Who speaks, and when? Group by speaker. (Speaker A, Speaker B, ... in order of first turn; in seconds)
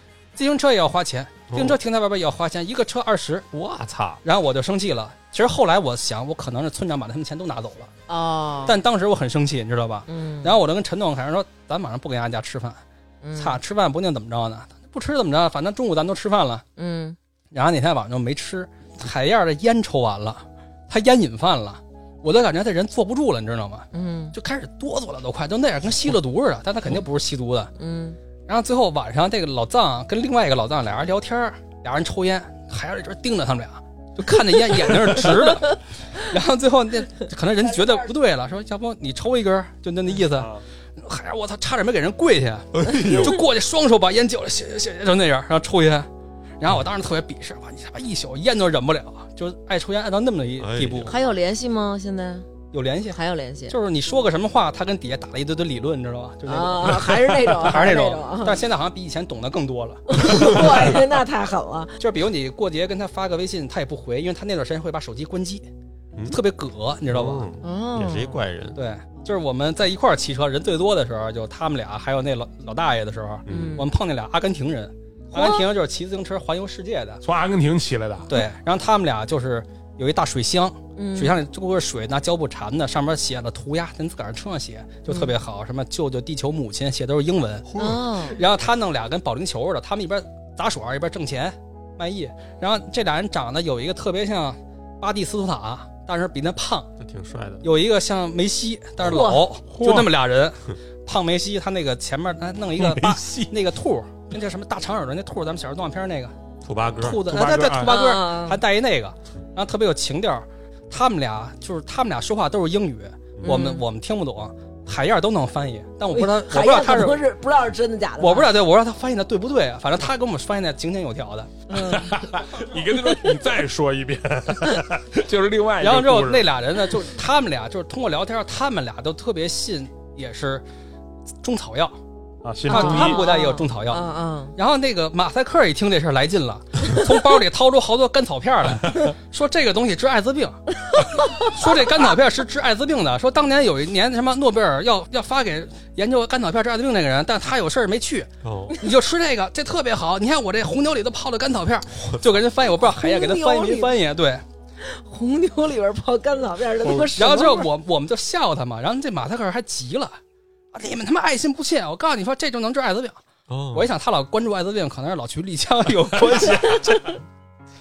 Speaker A: 0.3-3.5, 4.2-7.9, 8.7-12.8, 13.4-16.6, 17.5-27.7, 28.5-46.1, 46.6-51.1, 52.7-53.2, 53.7-61.0, 62.0-65.7, 66.3-67.5, 68.8-77.2, 78.3-87.7, 88.2-96.9, 97.6-106.3, 107.0-117.2, 118.2-121.6, 125.8-130.7, 131.4-132.0, 132.7-134.0, 134.6-140.6, 141.1-154.4, 157.2-160.2, 160.7-163.2, 163.7-167.2
Speaker B: 1.5-1.8, 3.5-4.2, 42.7-43.4, 50.6-51.2, 67.1-68.8, 73.5-73.8, 87.7-88.0, 97.0-97.7, 106.6-107.4, 148.4-148.8, 163.5-163.9
Speaker C: 8.1-8.8, 10.1-10.6, 13.2-13.6, 16.8-17.2, 23.9-24.4, 27.8-28.2, 37.6-38.1, 51.1-52.5, 53.1-53.8, 56.5-58.6, 60.1-62.0, 67.6-68.4, 73.5-73.9, 75.3-75.7, 81.0-81.4, 87.8-88.4, 99.0-99.5, 107.8-108.6, 113.4-113.8, 116.1-118.5, 121.7-122.3, 132.7-134.6, 140.9-141.5, 152.8-154.0, 154.8-157.7
Speaker D: 40.3-40.6, 77.2-78.3, 99.7-100.1, 102.8-103.5, 107.3-107.9, 121.8-126.5, 132.4-133.2